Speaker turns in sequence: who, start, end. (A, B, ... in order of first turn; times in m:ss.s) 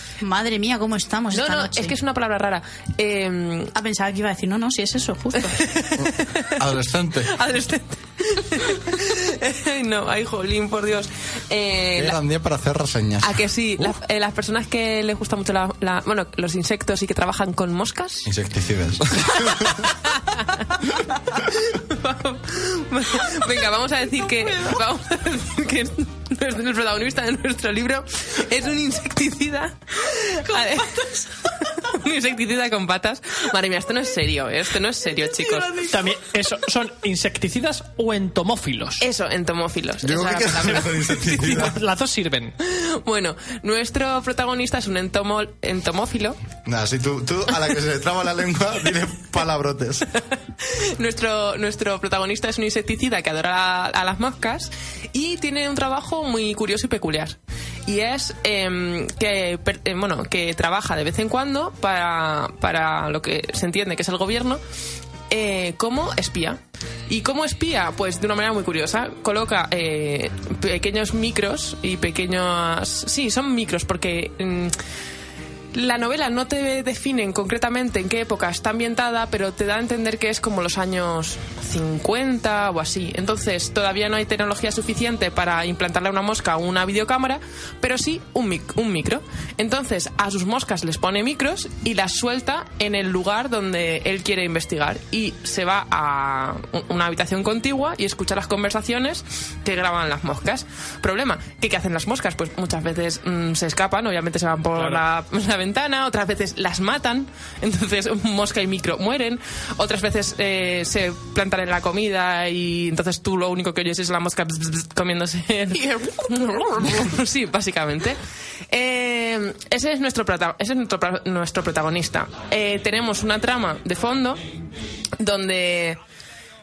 0:00.2-0:02.0 A
0:01.3-0:03.7 B
0:03.8-0:05.6 A
0:05.5-0:06.6 B
0:06.0-0:07.4 C
0:07.3-0:12.2 B
0:12.0-0:13.4 C
0:13.2-0:18.3 B
0:18.2-0:19.9 C
0:19.6-0:35.9 B
0:35.8-0:39.0 D
0:39.0-0:41.7 B
0:40.0-0:41.8 C
0:41.3-0:42.6 D
0:42.6-0:46.4 B
0:46.6-0:50.1 C
0:50.6-1:04.6 B
1:05.3-1:14.8 B
1:15.7-1:58.2 B
1:44.8-1:45.0 D
1:58.7-2:04.4 B
2:05.2-2:06.0 B